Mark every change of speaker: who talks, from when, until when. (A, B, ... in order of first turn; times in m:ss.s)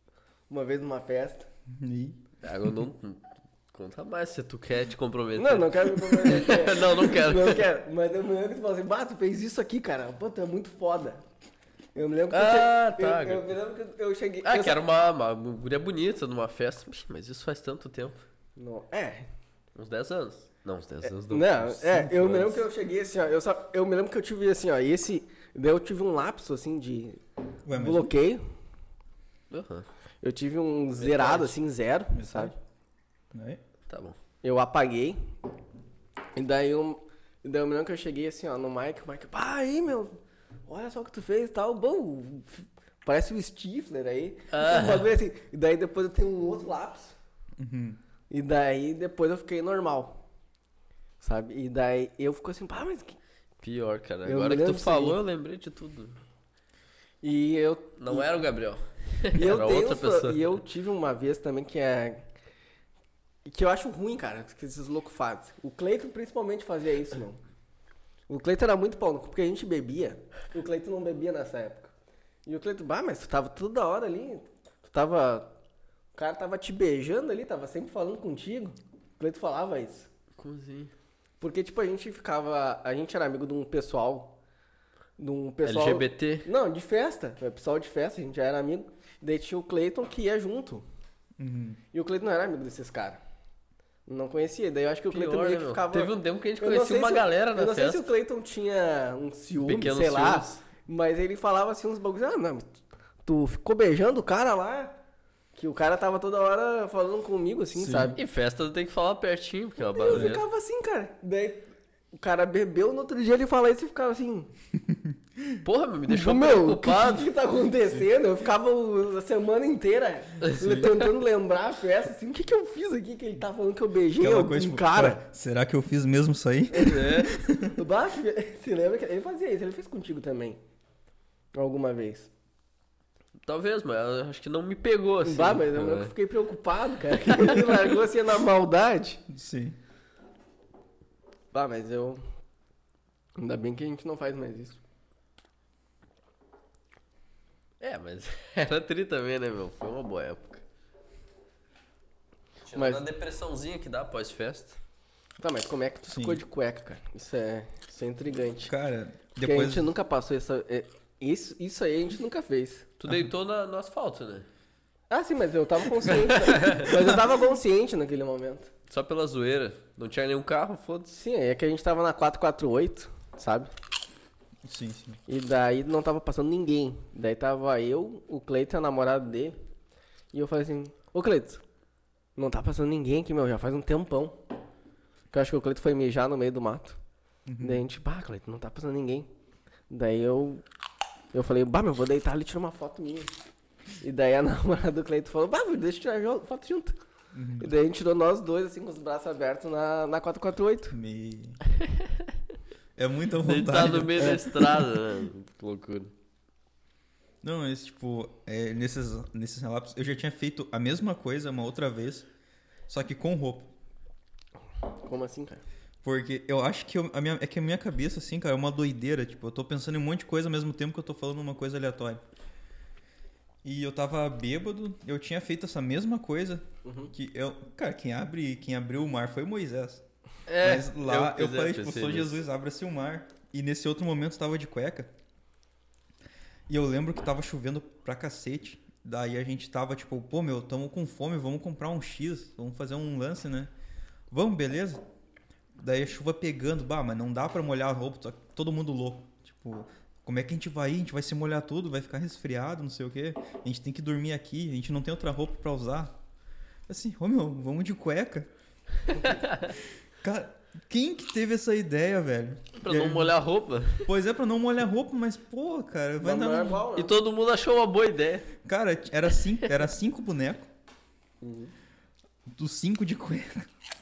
0:00.5-0:01.5 A
0:01.7-0:02.2 B
0:02.4-0:07.7 C
0:05.4-0:11.2 A
0:12.0-0:14.8 A
0:12.3-0:13.6 C
0:14.4-0:18.2 C
0:18.6-0:19.3 A
0:19.8-0:22.6 C
0:21.0-0:28.4 A
0:27.7-0:28.1 B
0:29.5-0:29.9 C
0:30.2-0:32.5 A
0:31.0-0:31.6 C
0:32.2-0:32.6 B
0:33.3-0:33.6 B
0:33.9-0:34.2 C
0:34.4-0:35.2 A
0:36.4-0:47.2 A
0:44.5-0:45.1 C
0:47.6-0:48.0 B
0:48.3-0:50.2 A
0:51.2-0:53.2 A
0:53.6-0:56.2 C
0:54.2-0:55.2 A
0:57.2-0:58.4 A
0:58.0-1:00.5 C
0:59.3-1:02.3 A
1:03.5-1:07.4 A
1:08.3-1:11.9 A
1:12.5-1:15.6 A
1:16.2-1:20.1 A
1:20.4-1:20.9 C
1:21.4-1:24.4 A
1:25.2-1:30.8 A
1:25.6-1:26.5 C
1:31.4-1:31.8 B
1:31.9-1:33.2 A
1:34.1-1:45.0 A
1:35.1-1:38.1 C
1:39.6-1:40.6 C
1:45.6-1:48.2 A
1:47.8-1:48.2 B
1:48.2-1:50.4 C
1:49.8-1:54.5 A
1:50.1-1:50.4 B
1:54.8-1:55.6 B
1:55.6-1:57.3 C
1:56.1-2:05.2 A
2:00.4-2:01.1 C
2:04.2-2:07.8 B
2:06.7-2:07.3 C
2:06.7-2:10.6 A
2:11.5-2:12.3 A
2:13.5-2:16.1 C
2:15.2-2:19.2 A
2:19.3-2:19.8 B
2:21.5-2:22.2 A
2:23.4-2:24.8 A
2:27.8-2:30.6 C
2:32.7-2:34.8 C
2:32.8-2:33.0 A
2:35.4-2:38.7 A
2:36.1-2:36.4 B
2:38.7-2:39.9 B
2:39.4-2:42.9 A
2:43.0-2:44.5 C
2:45.1-2:48.7 A
2:46.2-2:46.9 C
2:46.9-2:47.2 B
2:48.9-2:51.2 C
2:51.2-2:53.7 A
2:54.6-2:55.2 B
2:55.3-2:59.6 A
3:00.3-3:01.6 A
3:02.4-3:04.4 A
3:05.3-3:07.0 A
3:07.5-3:07.8 B
3:07.6-3:09.3 A
3:09.9-3:10.6 A
3:11.3-3:13.3 A
3:14.0-3:17.0 A
3:17.3-3:17.7 B
3:17.6-3:21.0 A
3:20.9-3:21.6 B
3:23.0-3:24.9 B
3:23.4-3:26.1 C
3:27.4-3:32.3 B
3:32.9-3:33.7 B
3:35.0-3:35.6 A
3:36.0-3:42.2 B
3:43.6-3:50.0 B
3:46.8-3:47.1 A
3:50.5-3:52.4 C
3:50.6-3:55.1 B
3:56.7-4:03.7 B
4:04.3-4:05.0 B
4:05.8-4:16.2 B
4:16.9-4:18.5 B
4:19.1-4:19.4 B
4:19.3-4:19.7 C
4:20.2-4:23.4 B
4:22.8-4:24.1 C
4:24.1-4:26.8 B
4:26.2-4:27.2 A
4:27.0-4:28.5 C
4:28.6-4:30.7 B
4:31.4-4:31.7 A
4:32.5-4:33.7 B